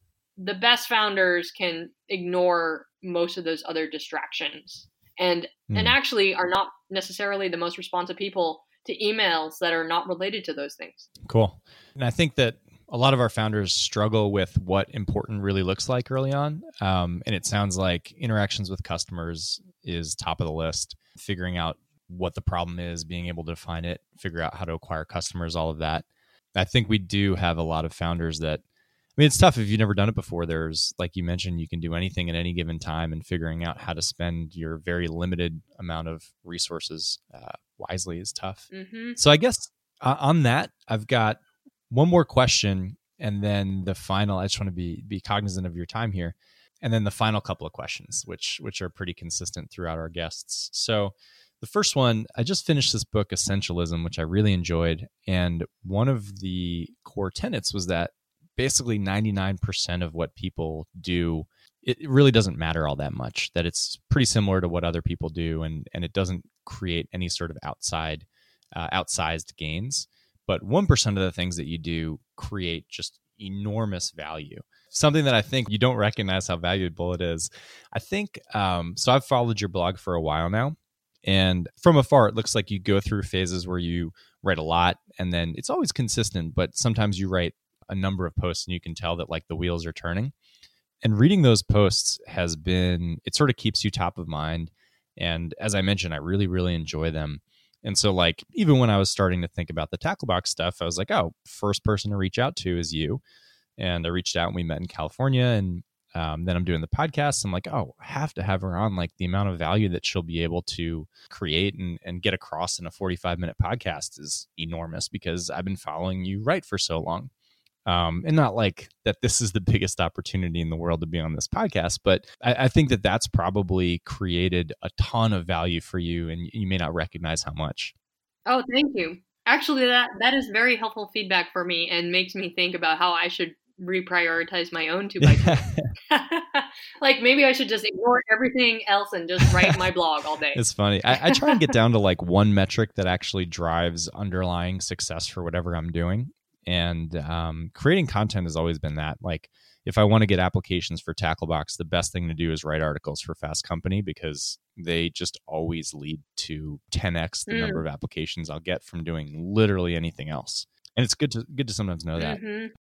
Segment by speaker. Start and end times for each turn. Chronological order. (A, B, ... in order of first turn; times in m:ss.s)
0:00.4-0:11.1 A
0:05.7-0:06.0 B
0:11.2-0:28.6 B
0:29.2-1:30.3 B
0:38.7-0:39.2 A
1:31.0-1:43.2 B
1:43.8-1:57.3 B
1:57.9-2:07.9 B
2:08.5-2:21.6 A
2:15.2-2:15.9 B
2:20.5-2:42.4 B
2:37.5-2:37.8 A
2:42.2-2:42.7 A